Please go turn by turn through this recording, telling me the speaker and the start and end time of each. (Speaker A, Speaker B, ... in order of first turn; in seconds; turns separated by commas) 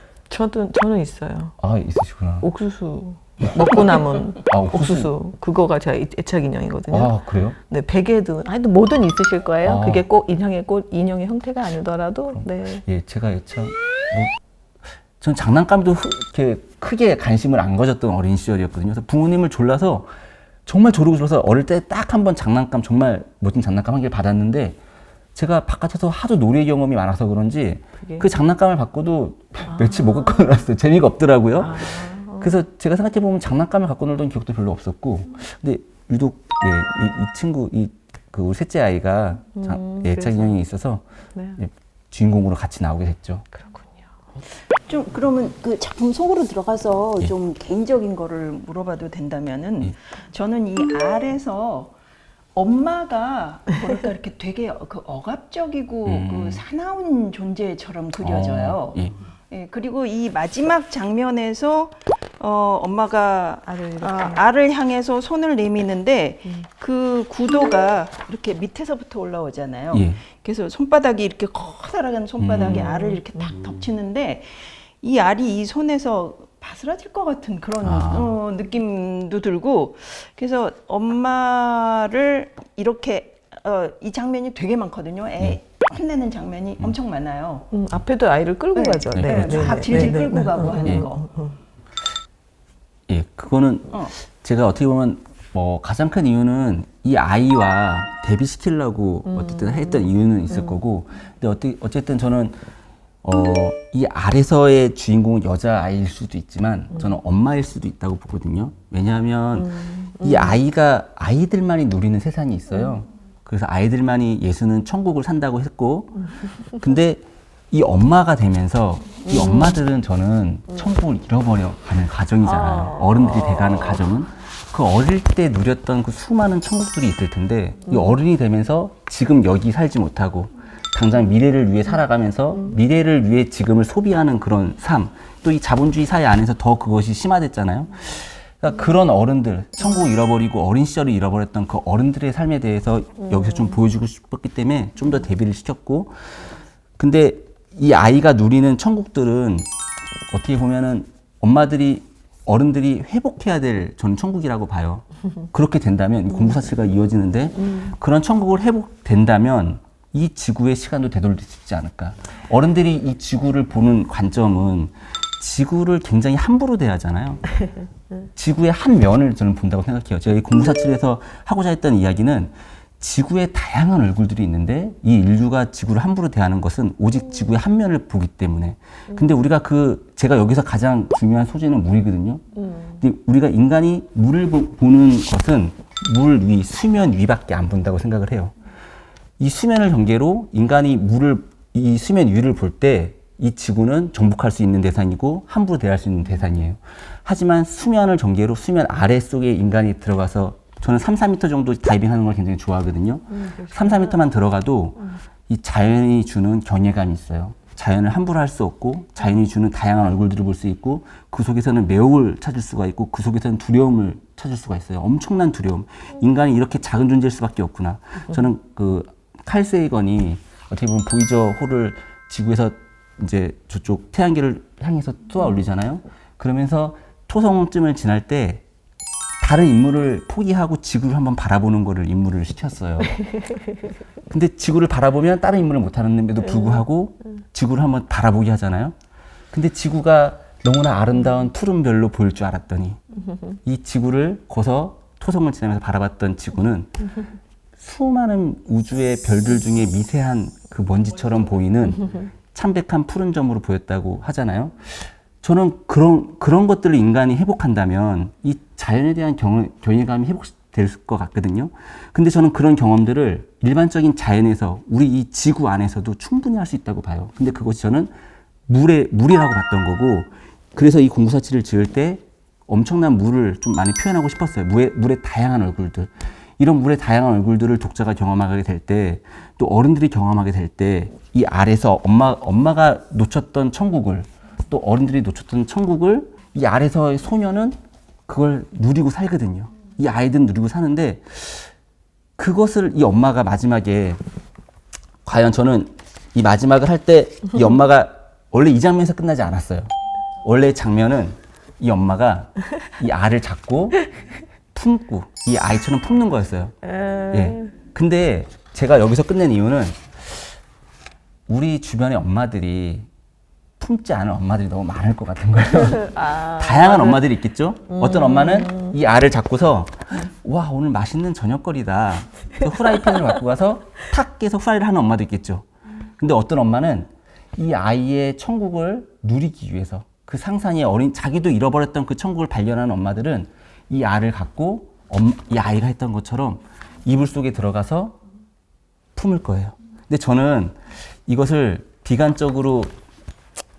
Speaker A: 0.3-1.6, Speaker B: 1.6-2.5, Speaker A: 2.4-7.1, Speaker B: 4.5-5.1, Speaker B: 6.9-7.6, Speaker A: 7.7-12.8, Speaker B: 9.6-10.1, Speaker B: 12.3-14.3, Speaker B: 15.2-20.1, Speaker B: 20.7-24.8, Speaker B: 25.4-41.0, Speaker A: 29.7-30.4, Speaker A: 31.6-32.5, Speaker A: 39.6-40.5, Speaker B: 41.6-43.5, Speaker A: 43.5-44.1, Speaker C: 44.9-51.9, Speaker C: 52.5-87.7, Speaker B: 56.1-56.6, Speaker B: 58.2-59.1, Speaker A: 63.6-64.5, Speaker B: 69.9-70.2, Speaker B: 72.4-73.0, Speaker A: 72.7-73.5, Speaker B: 77.8-78.4, Speaker A: 87.7-91.5, Speaker C: 88.8-91.3, Speaker B: 89.1-90.2, Speaker B: 90.8-91.1, Speaker B: 93.1-102.7, Speaker A: 99.3-100.8, Speaker B: 103.2-146.3, Speaker A: 109.6-110.6, Speaker A: 119.3-119.7, Speaker A: 122.4-124.0, Speaker B: 147.0-149.7, Speaker B: 150.3-167.4, Speaker B: 168.4-182.4, Speaker B: 183.0-188.6, Speaker B: 189.4-228.6, Speaker A: 203.3-204.2, Speaker B: 229.4-233.2, Speaker B: 234.3-238.9, Speaker B: 239.5-243.0, Speaker B: 243.7-246.9, Speaker B: 247.8-268.1, Speaker B: 268.7-291.7, Speaker B: 292.4-294.2, Speaker B: 295.2-299.9, Speaker B: 300.4-304.0, Speaker B: 304.7-306.7, Speaker A: 306.9-307.7, Speaker B: 307.3-310.6, Speaker B: 311.5-313.1, Speaker B: 313.8-325.6, Speaker A: 315.9-317.2, Speaker A: 317.9-318.9, Speaker B: 326.2-338.2, Speaker B: 339.1-342.9